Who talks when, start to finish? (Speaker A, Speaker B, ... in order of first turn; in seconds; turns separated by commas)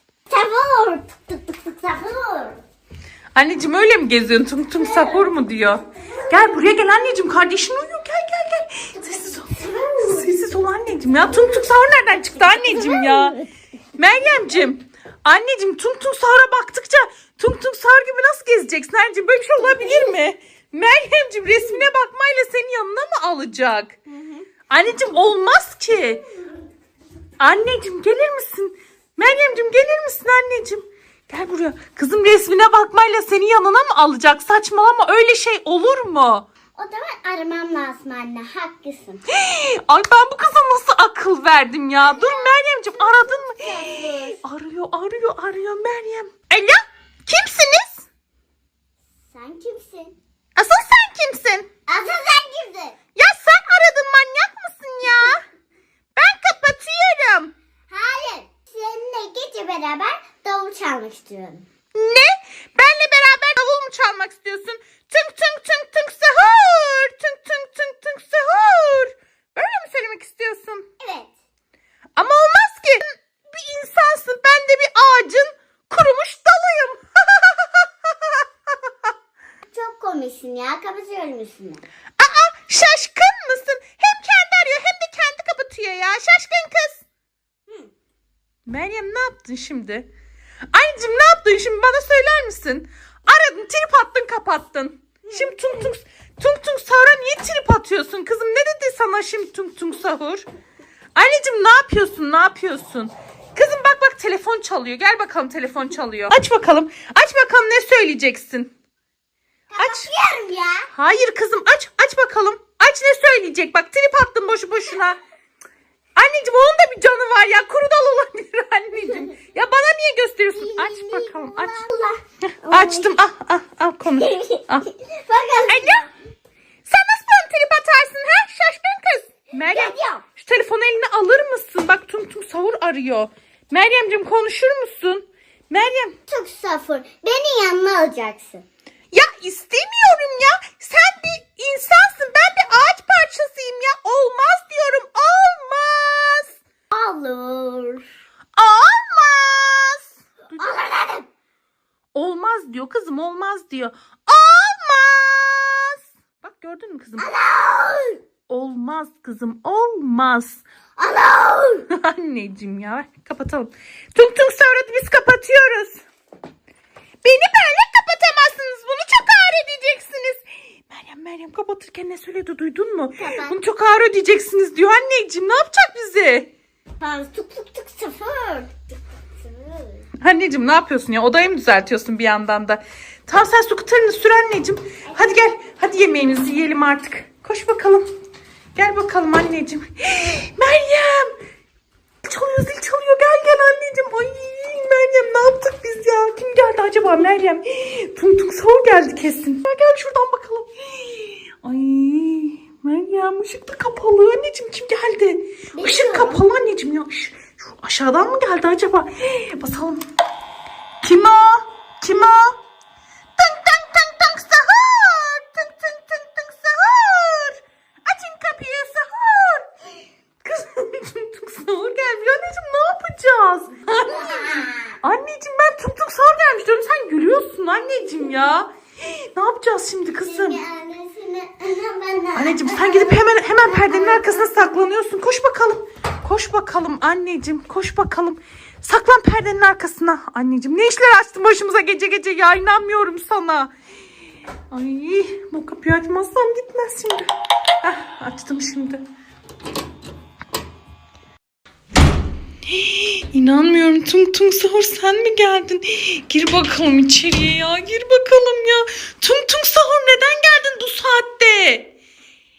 Speaker A: 0.3-2.6, Speaker B: 3.3-13.4, Speaker A: 4.7-5.3, Speaker A: 9.6-9.8, Speaker A: 12.5-13.5, Speaker B: 13.9-23.9, Speaker A: 24.1-24.4, Speaker B: 24.7-26.2, Speaker B: 27.4-36.5, Speaker A: 36.8-39.2, Speaker B: 39.3-48.1, Speaker A: 42.0-44.4, Speaker A: 49.3-50.1, Speaker B: 50.5-51.7, Speaker A: 51.9-53.0, Speaker B: 53.1-55.4, Speaker B: 56.1-57.5, Speaker A: 57.9-61.6, Speaker B: 61.9-70.8, Speaker A: 71.0-71.3, Speaker B: 72.2-78.4, Speaker A: 79.7-81.8, Speaker B: 82.2-87.0, Speaker B: 88.7-90.1, Speaker B: 90.7-100.4, Speaker B: 101.2-108.7, Speaker A: 109.7-110.9, Speaker B: 109.8-110.1, Speaker B: 110.9-115.2, Speaker B: 116.2-121.8, Speaker A: 120.5-123.2, Speaker B: 122.6-124.9, Speaker A: 124.2-126.1, Speaker B: 125.7-126.1, Speaker B: 126.8-136.1, Speaker A: 129.6-130.2, Speaker A: 136.3-138.6, Speaker B: 139.1-146.6, Speaker A: 146.9-148.1, Speaker B: 148.6-150.7, Speaker A: 150.6-151.3, Speaker B: 152.1-157.3, Speaker A: 157.2-158.2, Speaker B: 158.5-160.6, Speaker A: 161.0-161.8, Speaker B: 161.9-166.0, Speaker B: 167.2-176.5, Speaker A: 173.2-173.6, Speaker A: 177.0-180.1, Speaker B: 180.2-188.1, Speaker A: 185.1-185.5, Speaker B: 188.8-191.3, Speaker B: 192.2-210.0, Speaker A: 205.7-206.5, Speaker B: 211.0-212.5, Speaker B: 213.4-219.7, Speaker B: 220.4-230.6, Speaker A: 224.1-224.9, Speaker A: 230.1-234.4, Speaker B: 232.3-243.7, Speaker B: 244.7-247.3, Speaker B: 247.8-249.0, Speaker B: 252.7-261.9